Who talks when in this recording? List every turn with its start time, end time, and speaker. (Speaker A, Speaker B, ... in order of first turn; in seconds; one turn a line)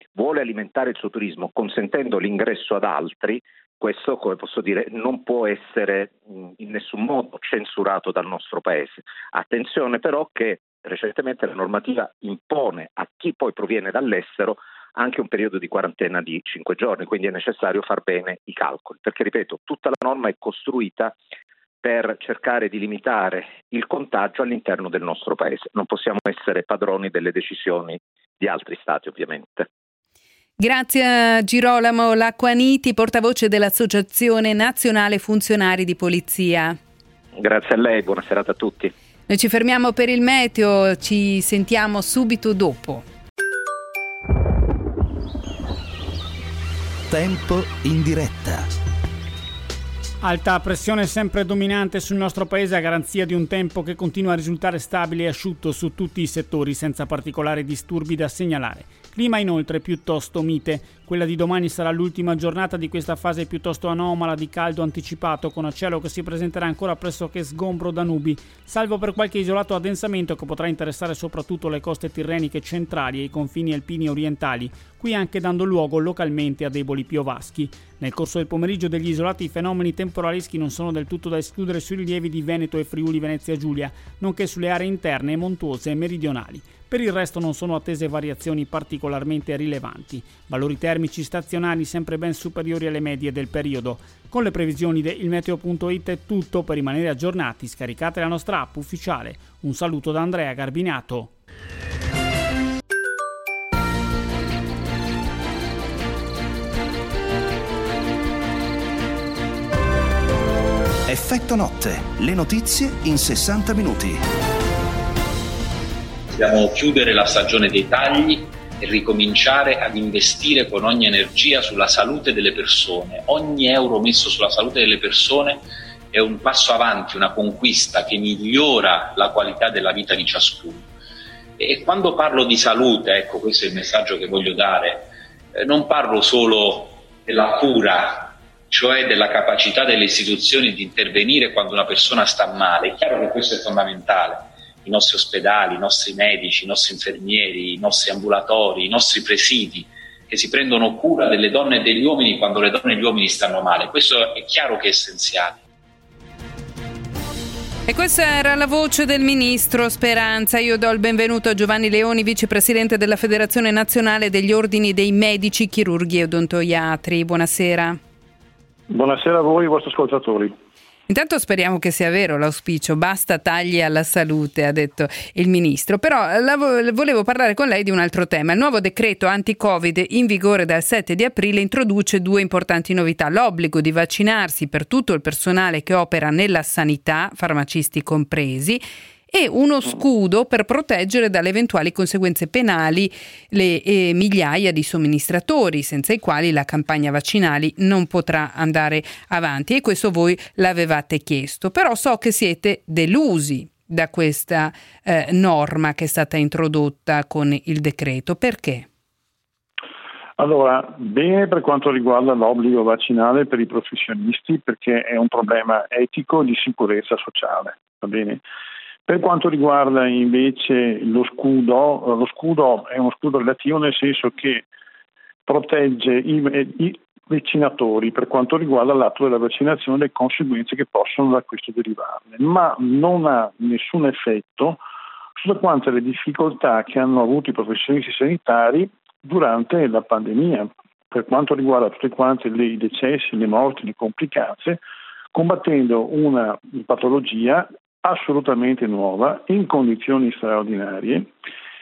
Speaker A: 0.1-21.1
Speaker A: 21.8-29.7
Speaker B: 30.6-36.8
Speaker A: 37.4-38.9
Speaker B: 39.3-43.0
Speaker C: 47.1-48.7
Speaker D: 50.2-101.3
Speaker C: 111.1-114.3
Speaker E: 116.3-130.9
Speaker E: 131.6-155.6
Speaker B: 157.9-168.0
Speaker F: 168.9-170.6
Speaker B: 171.1-208.9
Speaker F: 210.4-218.4
Speaker F: 219.1-224.7
Speaker F: 225.5-234.8
Speaker F: 235.4-244.8
Speaker F: 245.3-251.3